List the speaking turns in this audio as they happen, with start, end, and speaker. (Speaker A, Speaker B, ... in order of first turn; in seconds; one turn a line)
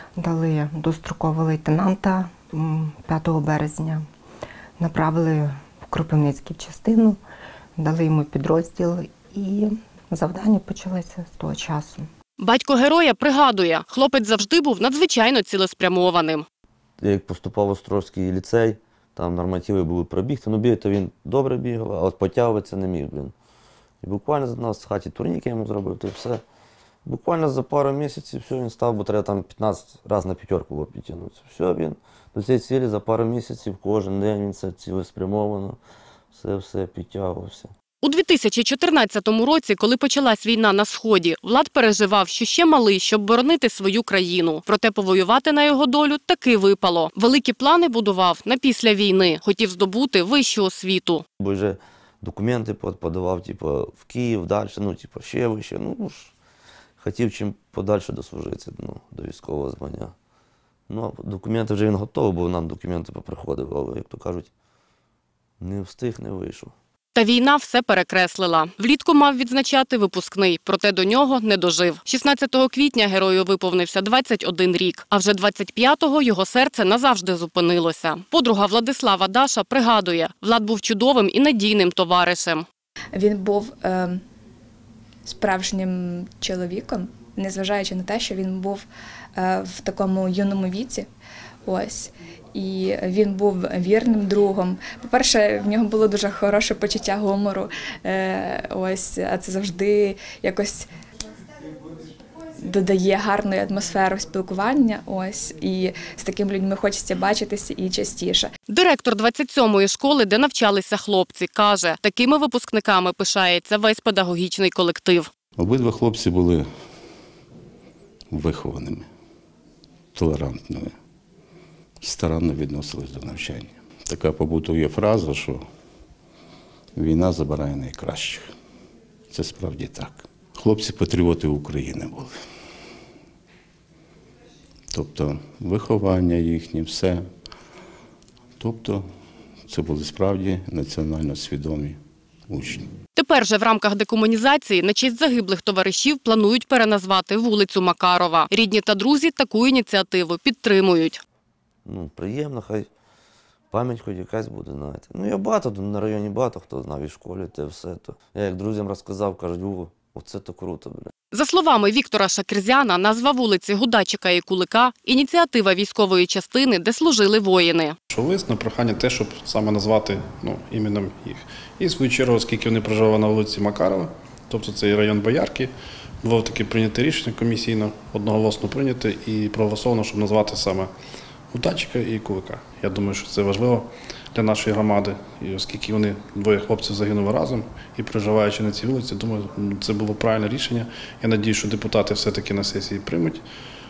Speaker A: 0.2-3.9
Speaker A: 4.9-7.1
Speaker A: 7.8-9.6
Speaker A: 10.2-11.9
Speaker B: 12.4-16.4
Speaker C: 17.0-23.3
Speaker C: 24.0-26.4
Speaker C: 27.0-35.8
Speaker C: 36.3-37.7
Speaker B: 38.0-51.2
Speaker C: 51.4-56.3
Speaker C: 57.0-60.1
Speaker C: 60.9-64.5
Speaker C: 65.6-66.7
Speaker B: 67.1-82.6
Speaker D: 83.1-84.2
Speaker D: 85.2-91.0
Speaker D: 91.6-100.9
Speaker D: 102.7-108.5
Speaker B: 108.7-115.3
Speaker E: 115.6-116.7
Speaker E: 118.3-119.1
Speaker E: 120.1-120.9
Speaker E: 122.0-125.6
Speaker E: 127.0-128.5
Speaker E: 129.3-132.3
Speaker E: 134.9-137.2
Speaker E: 138.6-139.0
Speaker E: 139.7-142.0
Speaker E: 142.5-142.8
Speaker B: 143.2-151.2
Speaker C: 151.8-152.9
Speaker C: 153.7-161.1
Speaker B: 161.3-167.9
Speaker F: 168.1-180.9
Speaker F: 181.5-193.4